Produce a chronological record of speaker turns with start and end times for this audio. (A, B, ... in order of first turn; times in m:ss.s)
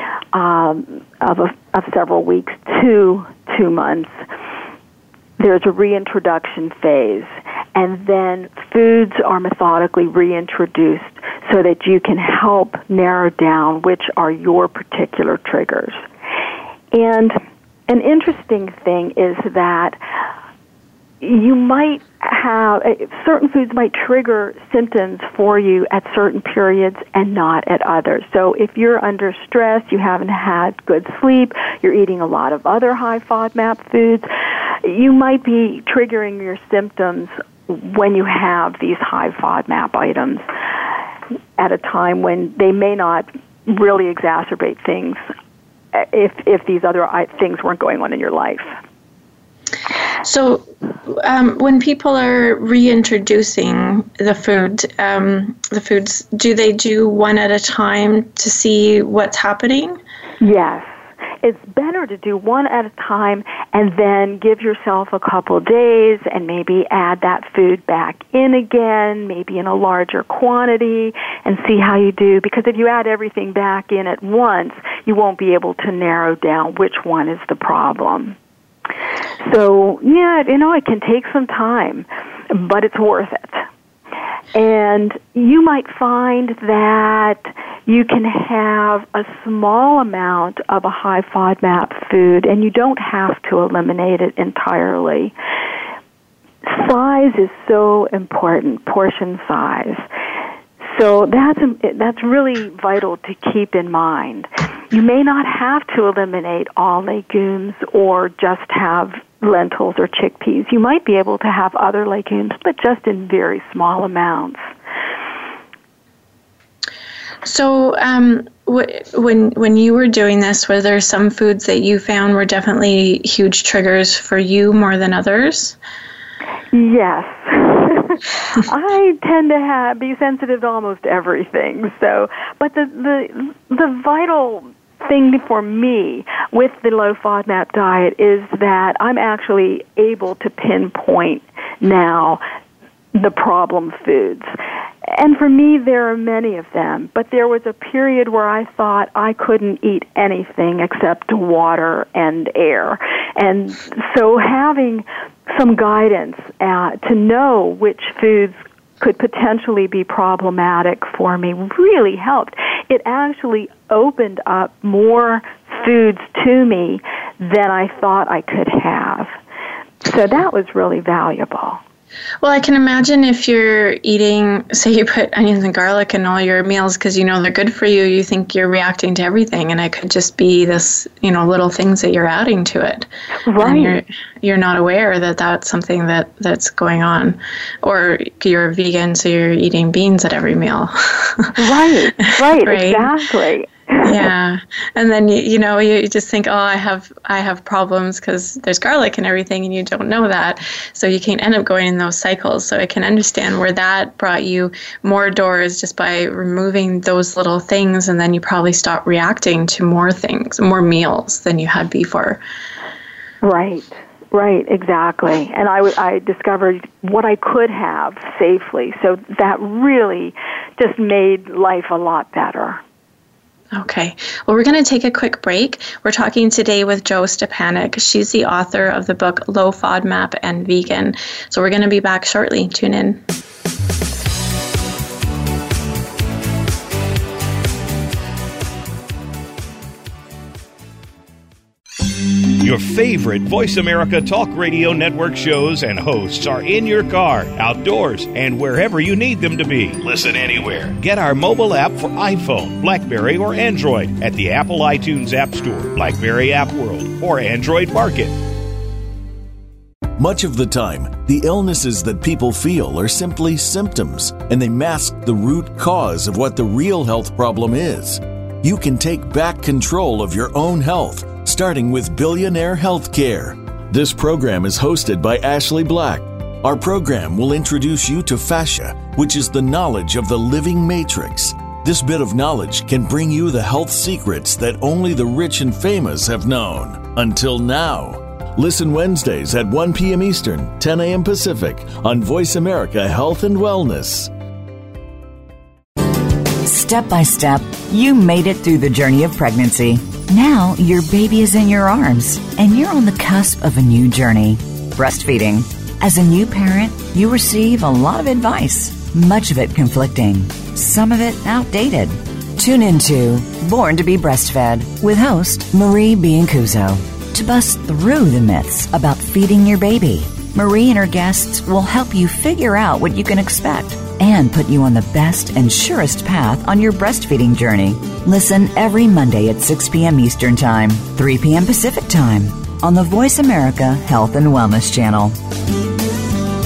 0:00.3-0:04.2 A
0:05.4-0:16.0 A
0:16.9-0:20.0 A
0:21.2-0:34.3 A
0:34.8-0:40.9 A
0:41.6-0:45.2 A
0:45.9-0:48.7 A
0:50.2-1:00.0 B
1:00.4-1:18.4 A
1:19.4-1:23.7 A
1:24.5-1:35.3 A
1:36.6-1:40.1 A
1:40.8-1:54.7 A
1:57.4-2:05.8 B
2:06.7-2:22.4 A
2:23.1-2:24.5 A
2:25.0-2:49.3 A
2:50.0-2:51.8 A
2:52.4-3:03.1 B
3:03.5-3:04.0 A
3:03.6-3:11.6 B
3:11.6-3:14.2 A
3:12.6-3:13.1 B
3:14.0-3:32.4 B
3:33.4-3:42.8 A
3:43.7-3:53.2 B
4:02.6-4:18.4 C
4:20.2-4:54.3 D
4:56.6-5:35.4 E